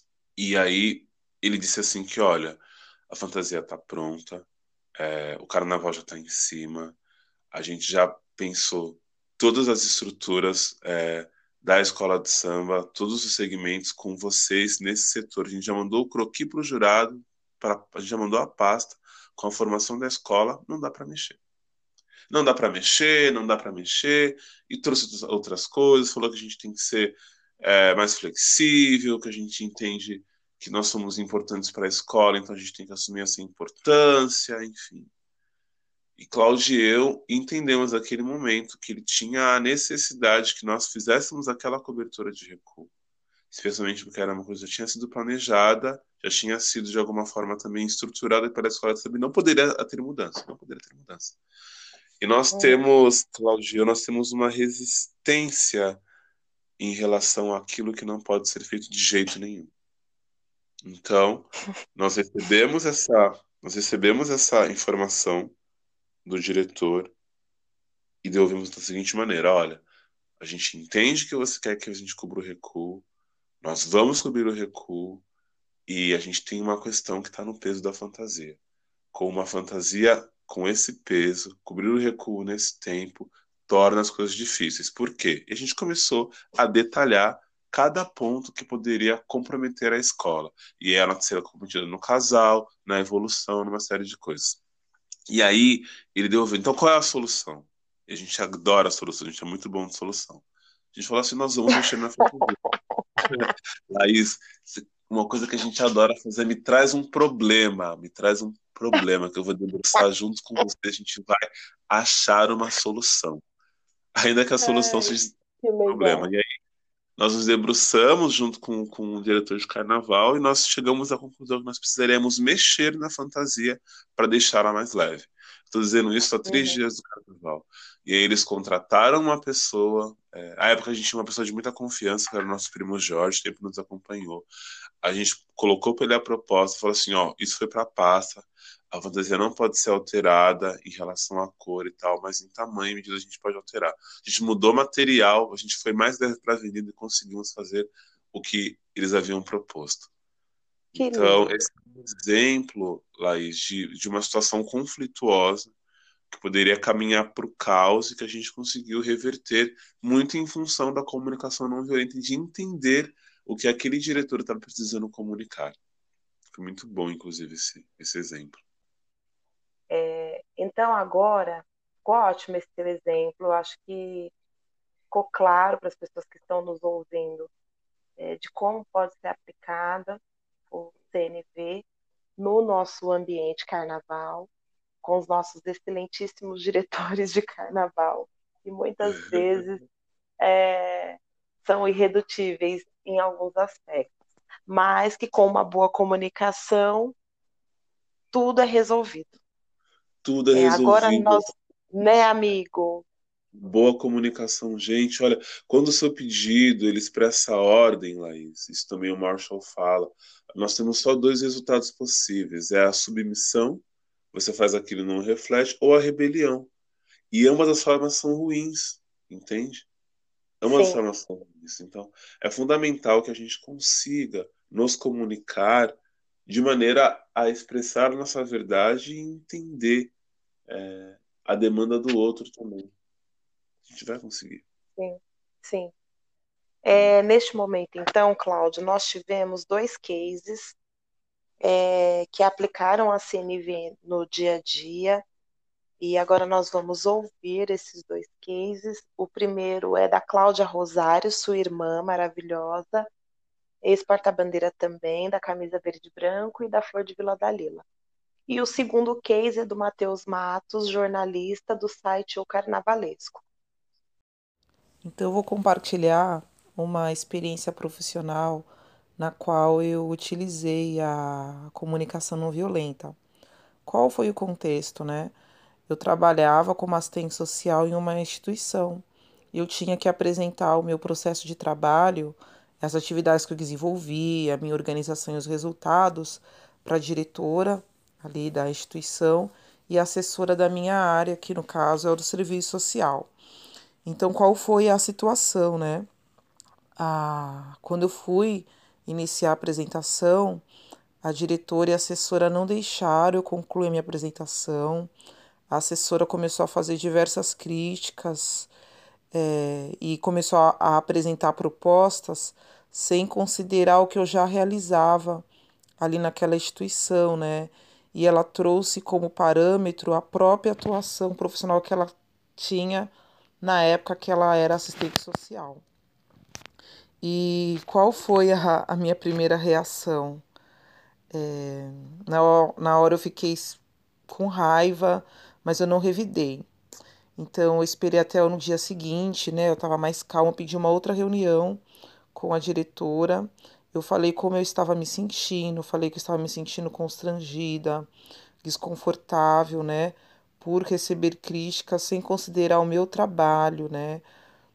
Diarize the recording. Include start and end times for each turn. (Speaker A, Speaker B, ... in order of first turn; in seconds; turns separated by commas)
Speaker A: 0.4-7.0, Speaker A: 7.5-21.4, Speaker A: 22.3-35.1, Speaker A: 36.2-42.9, Speaker A: 43.5-51.4, Speaker A: 52.2-56.0, Speaker B: 52.5-52.8, Speaker A: 56.8-59.7, Speaker A: 60.8-65.5, Speaker A: 66.2-67.1, Speaker A: 68.2-69.8, Speaker A: 70.4-73.0, Speaker A: 73.6-75.2, Speaker A: 75.9-78.6, Speaker A: 79.1-94.6, Speaker A: 95.3-102.6, Speaker B: 103.0-103.5, Speaker A: 103.3-113.4, Speaker A: 114.2-115.3, Speaker B: 114.6-116.3, Speaker A: 115.9-116.5, Speaker A: 117.2-134.5, Speaker B: 126.5-126.8, Speaker A: 135.0-150.1, Speaker A: 150.9-155.7, Speaker B: 150.9-151.4, Speaker A: 156.3-165.8, Speaker A: 166.5-168.6, Speaker B: 169.9-174.3, Speaker B: 175.1-177.5, Speaker B: 178.2-181.8, Speaker B: 182.4-184.5, Speaker B: 185.0-189.8, Speaker B: 190.4-194.2, Speaker B: 194.7-197.2, Speaker B: 198.3-199.3, Speaker A: 200.2-201.5, Speaker B: 200.5-203.1, Speaker A: 203.5-216.7, Speaker A: 217.3-219.9, Speaker A: 220.6-230.1, Speaker B: 220.7-221.0, Speaker A: 230.7-232.9, Speaker A: 233.9-234.6, Speaker B: 235.0-235.9, Speaker B: 236.8-240.8, Speaker A: 236.9-237.2, Speaker B: 241.6-245.2, Speaker B: 246.0-253.1, Speaker B: 253.8-257.8, Speaker B: 258.5-263.4, Speaker C: 265.0-273.2, Speaker C: 273.9-275.4, Speaker C: 275.9-293.3, Speaker C: 294.1-296.1, Speaker C: 297.0-300.6, Speaker C: 301.2-305.1, Speaker C: 305.7-308.7, Speaker C: 309.3-315.5, Speaker C: 316.0-325.8, Speaker C: 327.2-330.4, Speaker C: 331.3-336.7, Speaker C: 337.4-348.1, Speaker C: 348.6-354.3